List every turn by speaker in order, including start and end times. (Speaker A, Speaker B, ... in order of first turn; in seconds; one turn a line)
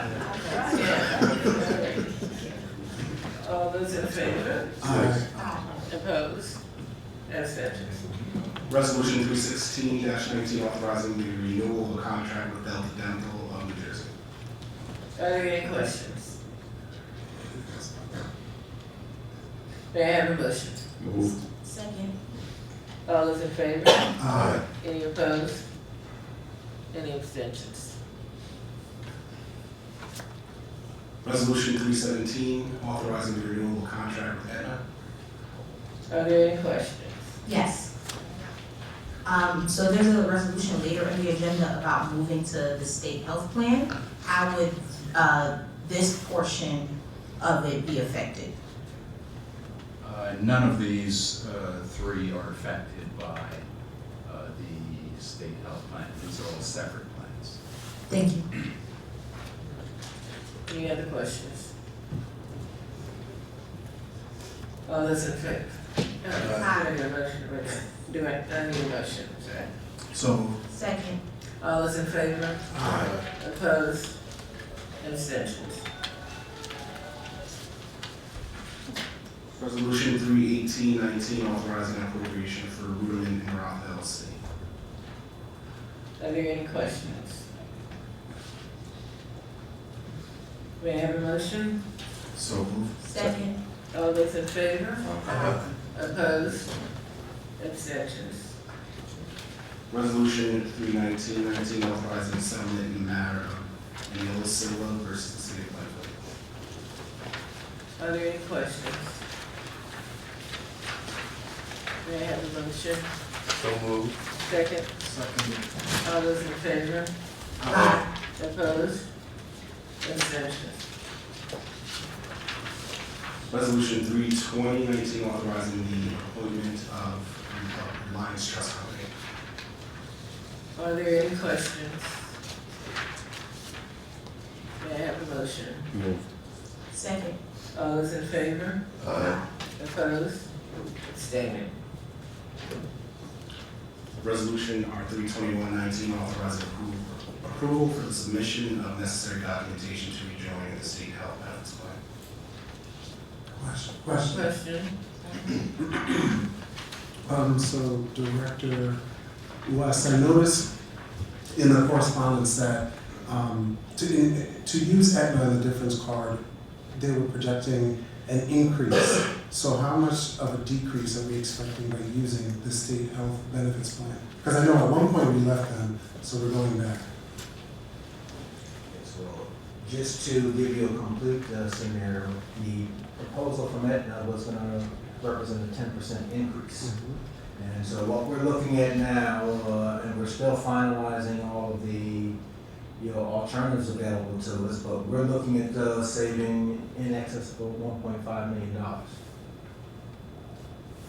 Speaker A: 0.5-0.7
Speaker B: 0.6-2.0
Speaker B: 3.4-4.8
Speaker C: 4.8-5.3
Speaker B: 5.8-6.6
Speaker B: 7.3-8.1
Speaker D: 8.7-14.1
Speaker B: 15.1-16.3
Speaker C: 17.6-18.2
Speaker B: 19.9-20.9
Speaker A: 21.6-22.1
Speaker B: 23.1-24.2
Speaker C: 24.2-24.6
Speaker B: 24.8-25.6
Speaker B: 26.9-27.9
Speaker D: 31.2-34.8
Speaker B: 36.1-37.4
Speaker A: 37.4-37.9
Speaker A: 39.2-48.5
Speaker E: 50.0-53.6
Speaker E: 54.2-57.6
Speaker A: 58.1-58.4
Speaker B: 60.7-61.7
Speaker B: 64.8-69.7
Speaker E: 66.3-66.6
Speaker A: 66.5-66.8
Speaker A: 70.7-71.2
Speaker B: 71.6-72.6
Speaker B: 73.3-74.2
Speaker B: 75.0-75.8
Speaker D: 79.5-84.4
Speaker B: 86.2-87.4
Speaker B: 90.8-91.8
Speaker E: 92.3-93.3
Speaker A: 93.0-93.5
Speaker B: 93.9-96.7
Speaker A: 95.2-95.6
Speaker B: 97.6-98.5
Speaker D: 99.9-106.1
Speaker B: 108.0-109.2
Speaker B: 112.0-113.1
Speaker B: 114.4-114.9
Speaker E: 115.0-115.6
Speaker B: 116.0-117.1
Speaker A: 117.7-118.0
Speaker B: 118.3-119.0
Speaker B: 120.0-120.8
Speaker D: 123.5-129.1
Speaker B: 130.7-132.2
Speaker B: 134.8-135.9
Speaker A: 136.9-137.4
Speaker B: 137.7-140.5
Speaker B: 141.0-141.7
Speaker D: 144.2-152.0
Speaker C: 153.5-154.5
Speaker B: 154.1-154.9
Speaker C: 157.2-159.0
Speaker C: 159.6-160.7
Speaker C: 161.5-166.4
Speaker C: 166.9-177.1
Speaker F: 178.9-186.9
Speaker C: 186.8-187.2
Speaker F: 187.5-192.3
Speaker F: 193.0-199.2